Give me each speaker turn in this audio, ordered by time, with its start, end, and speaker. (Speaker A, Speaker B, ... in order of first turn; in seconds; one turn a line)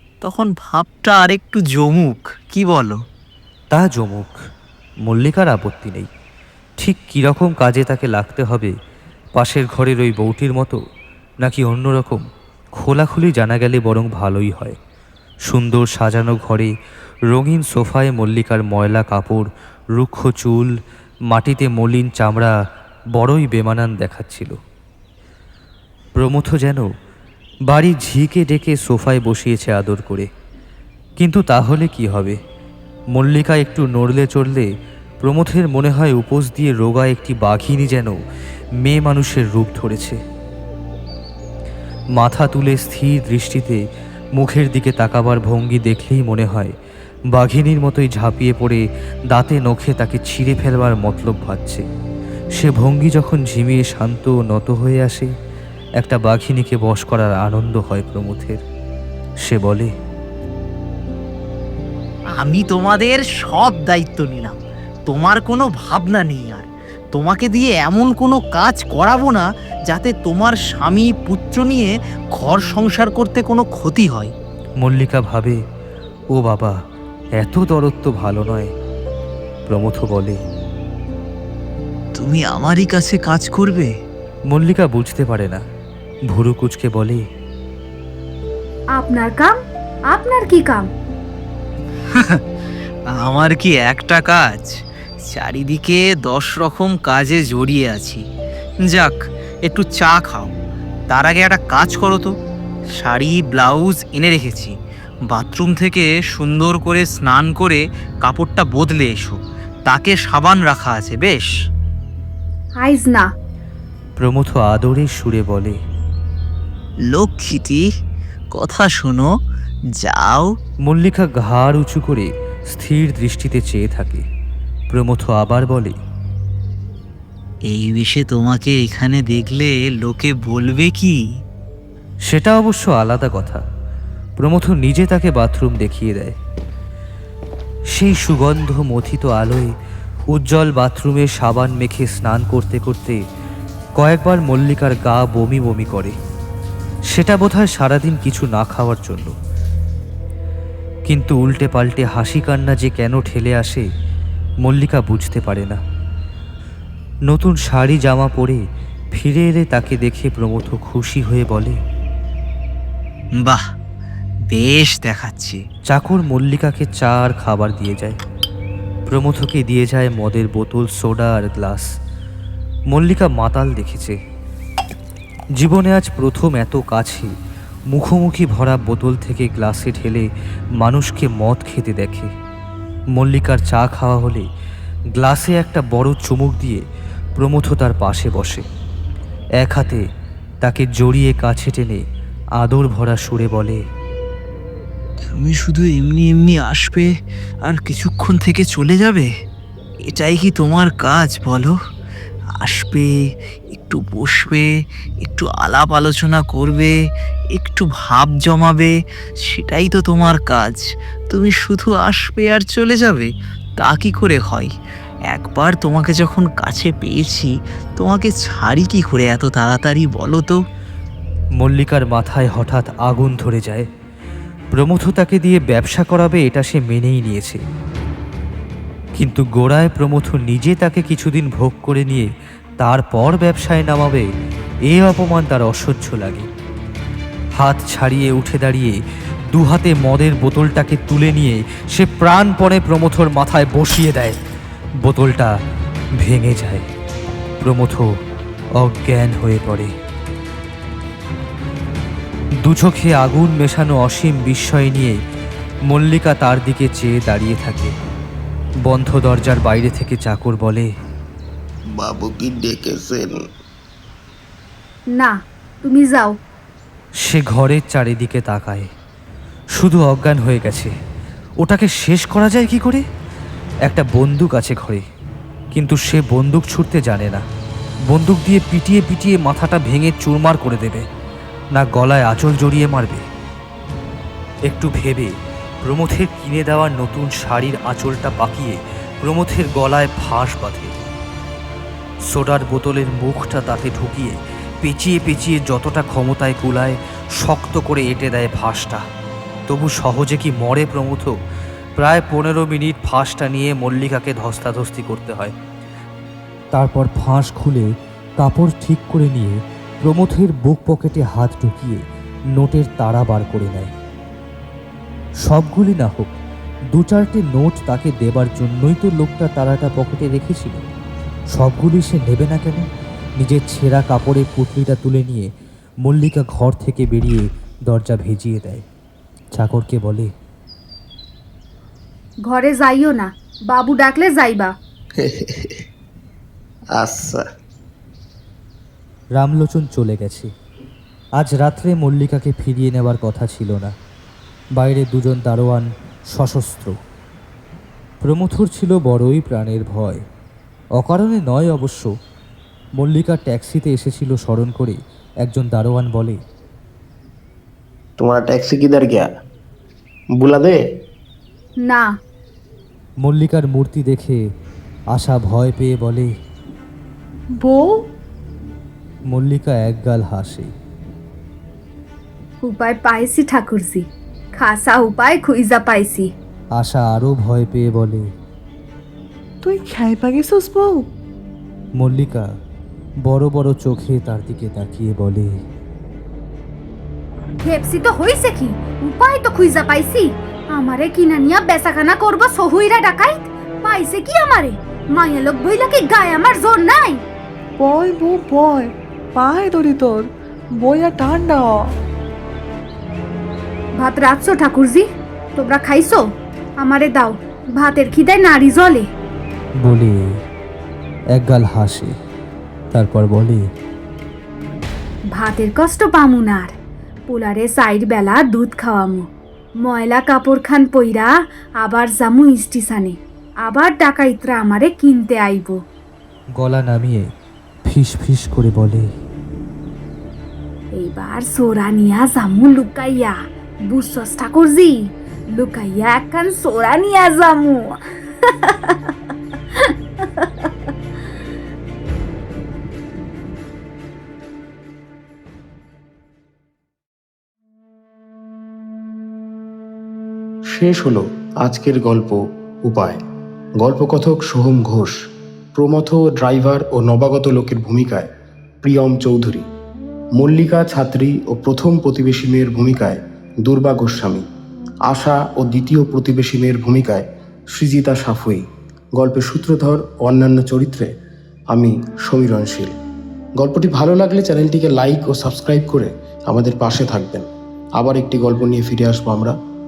Speaker A: 0.2-3.0
Speaker B: 3.7-4.4
Speaker B: 5.0-6.1
Speaker B: 6.8-8.8
Speaker B: 9.3-10.8
Speaker B: 11.4-12.2
Speaker B: 12.8-14.8
Speaker B: 15.5-16.7
Speaker B: 17.3-20.7
Speaker B: 21.3-22.5
Speaker B: 23.2-24.6
Speaker B: 26.2-26.9
Speaker B: 27.7-30.3
Speaker B: 31.2-32.4
Speaker B: 33.1-34.7
Speaker B: 35.2-38.2
Speaker B: 38.8-40.2
Speaker B: 42.2-43.8
Speaker B: 44.4-46.7
Speaker B: 47.3-51.9
Speaker B: 52.6-55.3
Speaker B: 56.0-58.6
Speaker B: 59.5-59.9
Speaker A: 62.4-64.6
Speaker A: 65.1-74.3
Speaker B: 74.8-75.6
Speaker B: 76.3-76.8
Speaker B: 77.4-78.7
Speaker B: 79.7-80.4
Speaker A: 82.2-83.9
Speaker B: 84.5-85.6
Speaker B: 86.3-87.2
Speaker C: 89.0-89.5
Speaker C: 90.1-90.9
Speaker A: 92.1-92.4
Speaker A: 93.1-94.8
Speaker A: 95.3-98.2
Speaker A: 98.9-100.5
Speaker A: 101.1-102.3
Speaker A: 103.0-104.7
Speaker A: 105.3-111.5
Speaker C: 112.8-113.3
Speaker B: 114.2-115.8
Speaker A: 117.1-117.8
Speaker A: 118.5-119.3
Speaker A: 120.0-120.5
Speaker B: 120.8-124.3
Speaker B: 124.9-126.0
Speaker A: 127.7-131.2
Speaker B: 132.3-133.6
Speaker B: 134.4-136.4
Speaker B: 137.9-139.7
Speaker B: 140.3-143.2
Speaker B: 144.0-146.2
Speaker B: 147.1-149.3
Speaker B: 151.1-153.9
Speaker B: 154.6-155.8
Speaker B: 157.3-158.6
Speaker B: 159.1-161.8
Speaker A: 164.5-165.6
Speaker B: 165.9-168.2
Speaker B: 169.1-171.9
Speaker B: 172.9-174.2
Speaker B: 175.6-177.3
Speaker B: 177.9-180.3
Speaker B: 180.8-182.3
Speaker B: 183.2-184.5
Speaker B: 185.1-186.8
Speaker B: 187.4-188.7
Speaker B: 189.6-190.1
Speaker B: 190.6-192.1
Speaker B: 192.6-193.8
Speaker A: 195.3-197.1
Speaker A: 197.6-199.3
Speaker A: 200.1-201.7
Speaker A: 202.6-203.1
Speaker A: 203.7-204.7
Speaker A: 205.2-206.9
Speaker A: 207.6-208.9
Speaker A: 209.5-213.3
Speaker A: 213.8-214.7
Speaker A: 215.3-220.6
Speaker B: 221.6-223.9
Speaker B: 224.7-227.6
Speaker B: 229.2-232.3
Speaker B: 232.8-234.3
Speaker B: 234.9-236.5
Speaker B: 237.6-239.0
Speaker B: 239.5-244.4
Speaker B: 245.0-245.6
Speaker B: 246.2-246.9
Speaker B: 247.6-248.1
Speaker B: 248.8-249.9
Speaker B: 252.6-255.2
Speaker B: 255.9-257.9
Speaker B: 258.9-260.9
Speaker D: 261.9-263.4
Speaker C: 265.2-266.4
Speaker B: 267.2-268.9
Speaker B: 269.8-270.9
Speaker B: 271.6-273.0
Speaker B: 273.9-275.1
Speaker B: 275.7-277.4
Speaker B: 278.1-281.1
Speaker B: 281.8-283.2
Speaker B: 284.7-291.1
Speaker B: 292.3-299.0
Speaker B: 299.7-301.3
Speaker B: 302.0-305.6
Speaker B: 306.7-312.0
Speaker B: 312.5-313.9
Speaker B: 315.4-316.4
Speaker B: 316.9-320.8
Speaker B: 321.5-322.9
Speaker B: 323.4-325.5
Speaker B: 326.1-328.9
Speaker B: 329.6-330.3
Speaker C: 332.5-334.7
Speaker D: 335.2-335.8
Speaker D: 336.9-337.5
Speaker B: 339.4-340.5
Speaker B: 341.4-343.9
Speaker B: 344.8-347.0
Speaker B: 348.2-350.2
Speaker B: 351.0-352.1
Speaker B: 353.0-356.4
Speaker D: 358.2-359.3
Speaker D: 360.4-360.8
Speaker B: 363.2-364.4
Speaker B: 365.1-366.3
Speaker E: 367.6-368.0
Speaker B: 369.3-370.7
Speaker C: 372.6-374.1
Speaker C: 374.6-376.3
Speaker B: 376.8-378.3
Speaker E: 379.6-381.1
Speaker B: 382.0-382.5
Speaker B: 383.2-385.5
Speaker C: 387.6-397.2
Speaker E: 397.8-401.8
Speaker C: 404.0-405.1
Speaker C: 405.6-406.2
Speaker C: 406.8-409.1
Speaker B: 409.8-410.2
Speaker B: 411.3-412.1
Speaker B: 412.9-413.6
Speaker C: 415.3-416.7
Speaker C: 417.3-419.3
Speaker C: 419.8-425.8
Speaker B: 426.6-427.3
Speaker B: 427.9-429.1
Speaker C: 430.9-433.4
Speaker C: 433.9-439.1
Speaker C: 439.8-440.6
Speaker D: 450.7-453.2
Speaker D: 453.8-455.2
Speaker D: 455.8-458.3
Speaker D: 458.8-459.7
Speaker D: 460.4-464.4
Speaker D: 465.1-471.1
Speaker D: 471.7-472.9
Speaker D: 473.6-477.5
Speaker D: 478.0-479.6